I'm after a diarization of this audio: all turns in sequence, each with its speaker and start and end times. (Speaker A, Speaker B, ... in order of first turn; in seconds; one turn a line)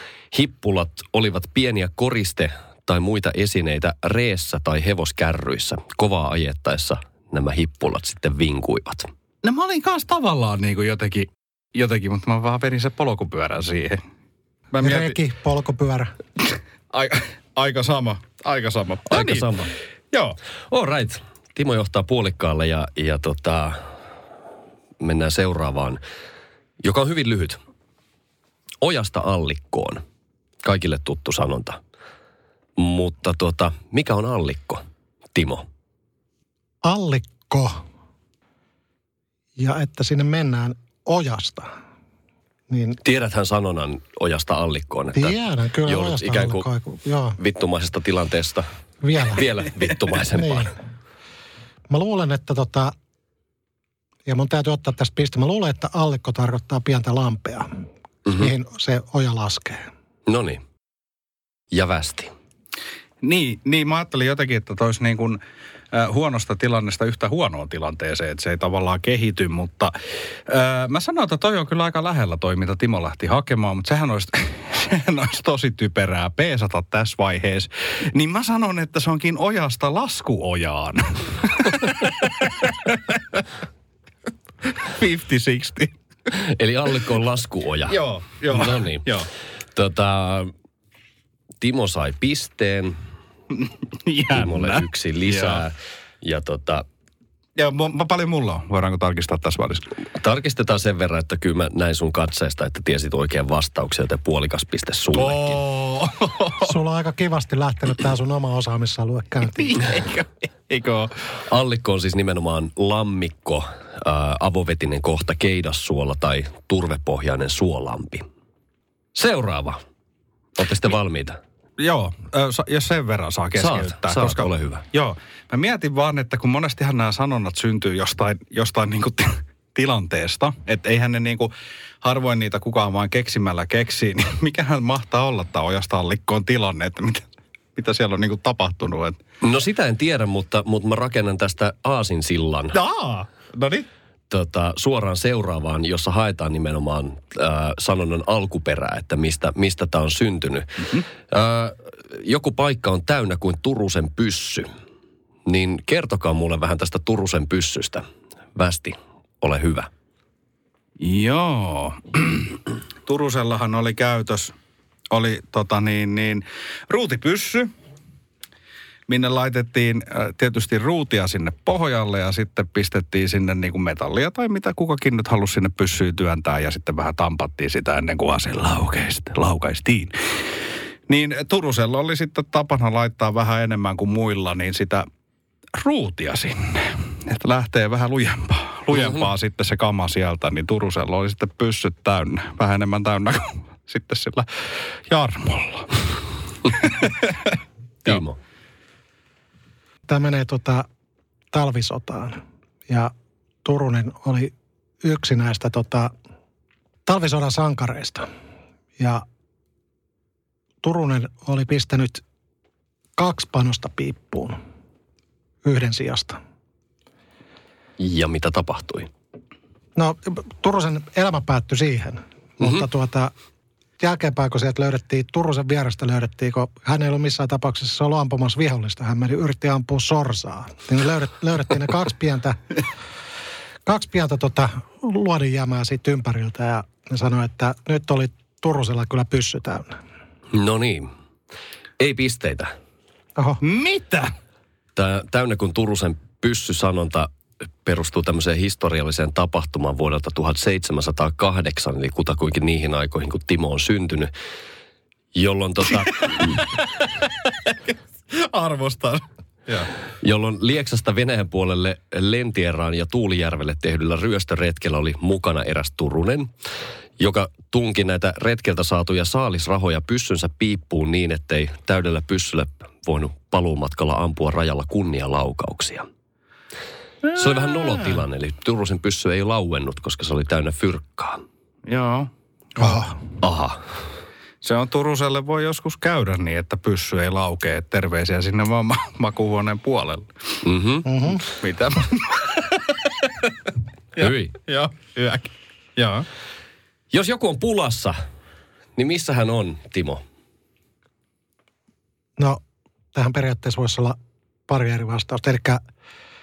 Speaker A: 0.3-9.1
Speaker B: 9.4-14.0
Speaker B: 14.7-15.2
Speaker C: 14.8-16.1
Speaker B: 16.9-19.5
Speaker A: 19.1-19.7
Speaker A: 20.7-23.8
Speaker A: 25.0-26.0
Speaker A: 26.8-27.6
Speaker A: 28.8-30.0
Speaker A: 30.6-31.8
Speaker A: 32.8-34.8
Speaker A: 35.4-35.6
Speaker C: 36.8-37.8
Speaker C: 39.6-41.7
Speaker C: 42.7-43.0
Speaker A: 43.0-46.7
Speaker C: 45.1-47.4
Speaker A: 47.4-48.7
Speaker C: 49.0-49.4
Speaker A: 49.3-50.7
Speaker C: 50.3-50.7
Speaker C: 51.9-52.9
Speaker C: 54.3-57.7
Speaker A: 58.3-58.5
Speaker C: 58.3-59.8
Speaker A: 60.3-60.6
Speaker A: 61.7-62.3
Speaker B: 63.2-65.4
Speaker B: 65.9-69.9
Speaker B: 70.5-83.4
Speaker B: 84.8-85.9
Speaker A: 86.3-88.0
Speaker B: 87.9-89.3
Speaker A: 88.5-89.1
Speaker A: 89.7-90.5
Speaker A: 91.6-93.0
Speaker B: 94.1-95.6
Speaker A: 94.3-96.8
Speaker B: 97.6-99.9
Speaker A: 100.2-105.6
Speaker B: 105.1-106.7
Speaker C: 106.6-109.8
Speaker B: 109.6-111.1
Speaker A: 111.5-118.2
Speaker A: 119.2-119.8
Speaker A: 120.6-121.4
Speaker B: 121.8-139.2
Speaker A: 123.6-124.8
Speaker A: 139.4-142.8
Speaker B: 142.7-143.9
Speaker A: 144.3-154.7
Speaker A: 155.5-159.9
Speaker B: 161.0-162.6
Speaker B: 163.1-164.6
Speaker B: 165.1-167.7
Speaker B: 169.1-180.1
Speaker B: 181.1-185.1
Speaker B: 185.8-196.0
Speaker B: 196.7-197.3
Speaker A: 198.1-198.4
Speaker C: 200.1-200.8
Speaker C: 201.5-203.1
Speaker C: 203.7-204.5
Speaker C: 205.0-206.1
Speaker C: 207.1-208.3
Speaker C: 209.0-209.2
Speaker C: 210.8-212.2
Speaker C: 213.2-214.6
Speaker C: 215.6-216.4
Speaker A: 218.0-219.1
Speaker C: 220.0-223.3
Speaker C: 224.0-232.8
Speaker C: 233.8-239.9
Speaker A: 240.5-241.1
Speaker A: 242.0-242.7
Speaker B: 243.6-244.3
Speaker A: 244.9-247.3
Speaker A: 247.8-254.3
Speaker A: 255.3-256.6
Speaker B: 256.4-259.9
Speaker A: 260.2-266.5
Speaker A: 267.2-276.1
Speaker A: 277.3-281.4
Speaker B: 281.9-283.0
Speaker C: 282.8-283.2
Speaker A: 283.4-283.8
Speaker B: 284.6-290.3
Speaker A: 290.6-291.1
Speaker C: 291.1-291.4
Speaker B: 291.4-293.5
Speaker A: 294.2-294.6
Speaker B: 294.2-296.3
Speaker A: 297.1-298.2
Speaker A: 299.0-300.2
Speaker C: 303.1-304.2
Speaker C: 304.7-305.8